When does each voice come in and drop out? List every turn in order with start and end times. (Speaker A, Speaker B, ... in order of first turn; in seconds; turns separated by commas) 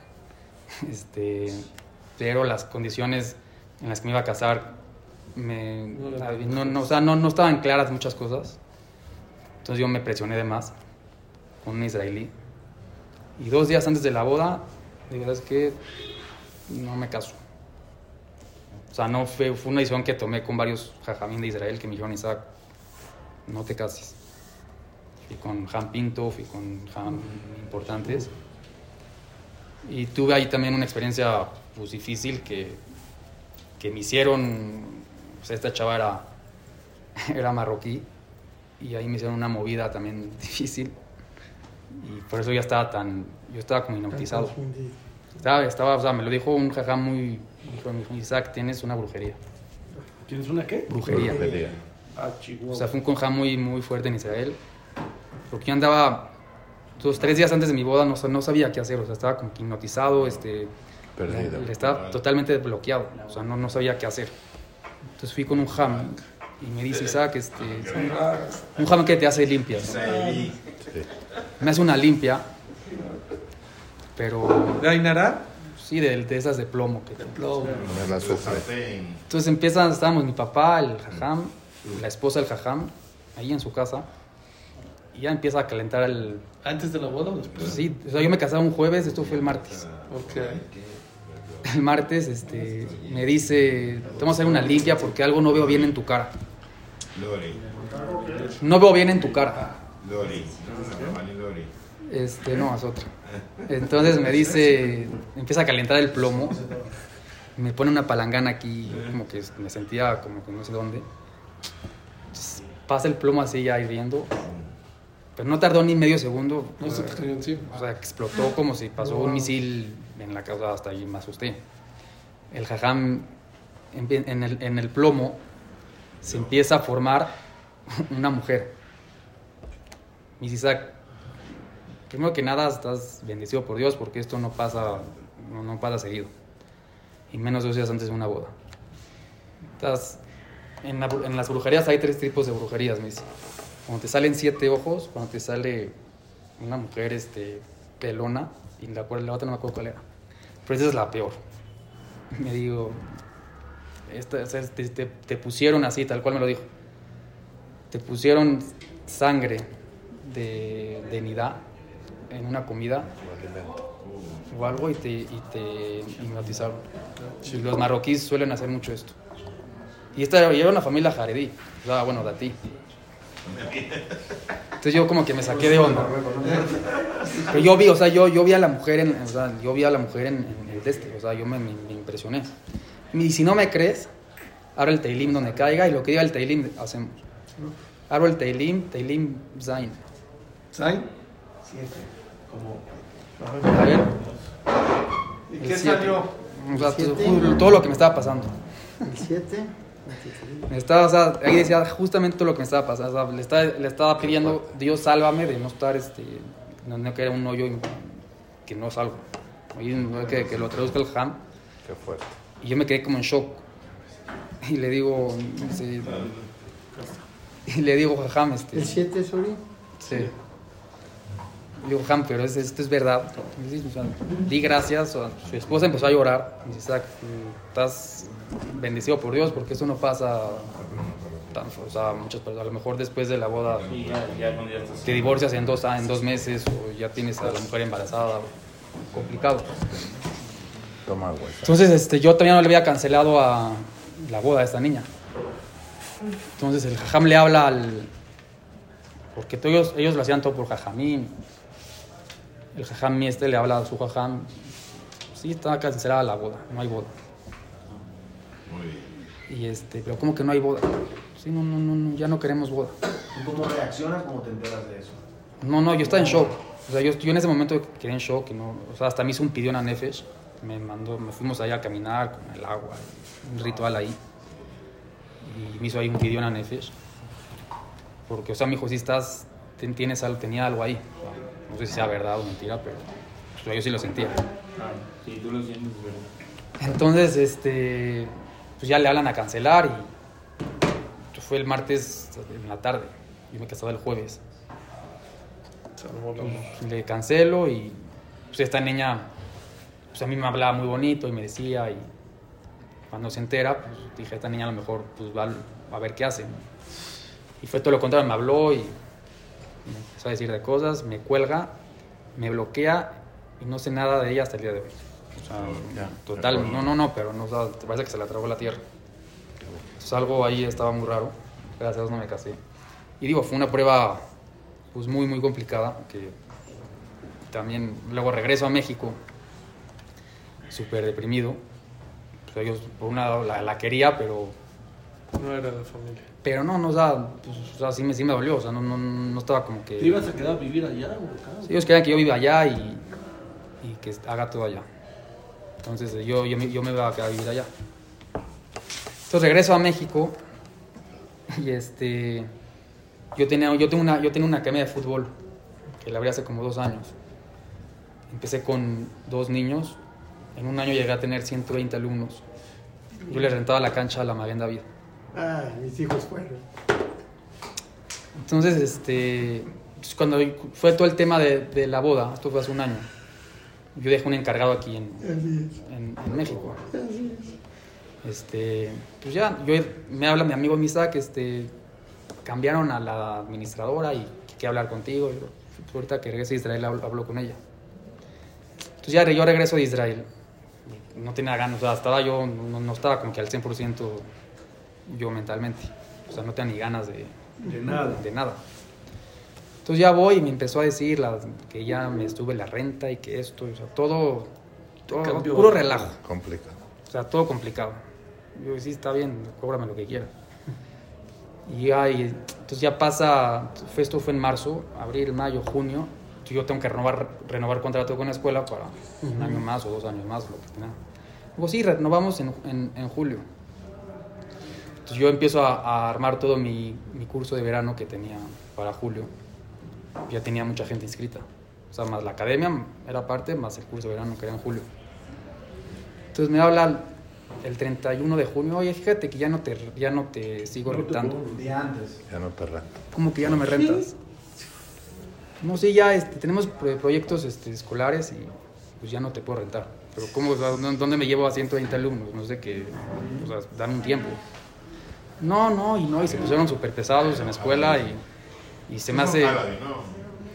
Speaker A: 0.8-4.8, Speaker A: 5.3-8.6, Speaker B: 5.9-6.8, Speaker A: 9.6-10.7, Speaker A: 11.6-12.3, Speaker A: 13.4-15.8, Speaker A: 16.7-17.4, Speaker A: 18.9-22.5, Speaker A: 23.4-24.1, Speaker A: 25.3-28.3, Speaker A: 29.8-32.8, Speaker A: 33.8-36.3, Speaker A: 37.1-38.1, Speaker A: 38.8-40.9, Speaker A: 41.9-44.5, Speaker C: 44.1-45.0, Speaker A: 45.4-49.4, Speaker D: 50.2-53.0, Speaker A: 50.9-51.6, Speaker C: 51.0-51.6, Speaker E: 51.2-51.8, Speaker A: 52.7-54.6, Speaker A: 55.5-56.3, Speaker A: 57.0-60.7, Speaker E: 61.2-61.7, Speaker A: 61.2-64.3, Speaker F: 61.7-62.2, Speaker A: 65.2-68.2, Speaker B: 66.9-67.2, Speaker F: 67.7-68.1, Speaker B: 67.8-68.7, Speaker A: 68.7-70.1, Speaker F: 69.7-70.6, Speaker C: 70.0-70.5, Speaker A: 71.6-72.5, Speaker A: 74.2-74.9, Speaker B: 74.7-75.4, Speaker A: 75.6-77.4, Speaker B: 77.2-77.8, Speaker F: 77.8-79.2, Speaker E: 77.8-78.7, Speaker A: 79.3-84.1, Speaker A: 85.1-86.4, Speaker B: 86.6-87.8, Speaker A: 87.5-89.8, Speaker F: 88.9-91.8, Speaker B: 90.1-90.6, Speaker A: 91.6-96.3, Speaker F: 92.6-95.9, Speaker F: 97.1-97.8, Speaker D: 97.7-98.5, Speaker G: 97.9-98.5, Speaker A: 98.6-99.7, Speaker F: 100.0-101.7, Speaker D: 100.8-101.0, Speaker A: 102.1-103.1, Speaker F: 103.3-103.6, Speaker A: 103.7-106.6, Speaker D: 106.4-106.7, Speaker A: 107.5-111.1, Speaker A: 112.3-114.3, Speaker F: 114.3-114.7, Speaker A: 115.3-121.6, Speaker B: 116.8-117.7, Speaker A: 122.5-123.3, Speaker A: 123.9-125.4, Speaker A: 126.2-127.3, Speaker A: 127.9-128.7, Speaker A: 130.4-131.0, Speaker A: 132.1-136.3, Speaker A: 137.3-138.5, Speaker A: 139.8-140.2, Speaker A: 140.8-143.3, Speaker A: 143.8-145.9, Speaker A: 146.6-150.0, Speaker A: 150.6-151.4, Speaker A: 152.3-153.1, Speaker A: 154.1-156.7, Speaker A: 157.9-161.6, Speaker A: 162.3-163.1, Speaker E: 163.2-163.7, Speaker F: 164.0-164.5, Speaker A: 164.5-166.8, Speaker B: 167.2-167.7, Speaker A: 167.4-169.2, Speaker A: 170.1-172.6, Speaker F: 173.4-174.3, Speaker A: 174.8-176.2, Speaker D: 175.7-176.7, Speaker A: 177.4-182.5, Speaker A: 183.1-184.1, Speaker A: 184.7-187.2, Speaker A: 188.1-190.0, Speaker B: 190.7-191.1, Speaker C: 191.6-192.1, Speaker D: 192.5-192.8, Speaker A: 193.6-194.1, Speaker A: 195.6-198.6, Speaker B: 195.8-196.1, Speaker C: 196.7-197.6, Speaker C: 199.0-200.7, Speaker A: 200.7-211.4, Speaker E: 204.3-204.6, Speaker E: 211.8-212.3, Speaker A: 212.6-213.6, Speaker A: 214.6-216.3, Speaker F: 216.0-216.4, Speaker A: 217.7-218.9, Speaker C: 218.7-219.6, Speaker A: 220.0-220.3, Speaker A: 221.8-230.7, Speaker F: 230.5-232.2, Speaker A: 231.5-233.9, Speaker F: 233.5-235.8, Speaker H: 233.9-235.4, Speaker A: 235.0-238.5, Speaker A: 239.1-239.7, Speaker F: 239.1-240.1, Speaker E: 241.1-241.8, Speaker A: 241.6-245.1, Speaker A: 246.6-248.1, Speaker A: 249.3-251.4, Speaker A: 252.7-254.5, Speaker A: 255.3-257.1, Speaker F: 258.7-259.2, Speaker A: 259.5-262.9, Speaker G: 263.4-265.2, Speaker A: 265.6-274.2, Speaker A: 275.4-276.9, Speaker A: 278.3-284.5, Speaker H: 284.8-286.3, Speaker A: 286.8-290.1, Speaker A: 291.3-294.4, Speaker B: 296.0-296.7, Speaker A: 296.4-298.0, Speaker A: 298.5-299.3, Speaker A: 300.1-302.1, Speaker A: 303.1-306.6, Speaker A: 307.6-308.9, Speaker A: 309.8-311.7, Speaker A: 312.3-318.8, Speaker F: 315.5-316.9, Speaker A: 320.0-322.6, Speaker A: 323.2-324.2, Speaker A: 324.9-326.4, Speaker A: 327.5-329.2, Speaker A: 330.7-331.6, Speaker A: 332.5-334.6, Speaker B: 335.3-336.3, Speaker A: 336.4-340.3, Speaker D: 340.0-341.9, Speaker A: 341.6-343.1, Speaker A: 343.8-344.9, Speaker A: 345.8-347.7, Speaker A: 349.3-350.4, Speaker A: 351.5-352.5, Speaker A: 353.3-355.3, Speaker A: 356.0-357.1, Speaker A: 358.3-360.0, Speaker A: 360.5-362.4, Speaker A: 363.3-364.9, Speaker C: 365.3-366.6, Speaker A: 368.3-373.1, Speaker A: 373.9-376.9, Speaker C: 375.2-375.7, Speaker C: 376.9-377.5, Speaker A: 378.2-381.7, Speaker A: 382.4-387.6, Speaker A: 389.0-390.3, Speaker A: 390.9-394.3, Speaker A: 395.1-397.4, Speaker D: 397.6-398.2, Speaker A: 398.0-398.6, Speaker A: 399.8-404.5, Speaker A: 405.1-406.2, Speaker B: 405.1-406.0, Speaker E: 406.2-406.8, Speaker A: 407.1-408.0, Speaker A: 408.5-410.3, Speaker A: 411.6-421.0, Speaker C: 419.2-419.6, Speaker A: 421.5-423.4, Speaker A: 425.0-429.3, Speaker A: 430.3-434.9, Speaker A: 436.3-441.4, Speaker D: 440.8-441.8, Speaker E: 442.2-443.0, Speaker A: 443.1-444.1, Speaker A: 445.6-454.4, Speaker A: 455.4-458.2, Speaker F: 456.4-456.6, Speaker F: 457.1-458.1, Speaker A: 458.9-459.6, Speaker F: 459.1-460.3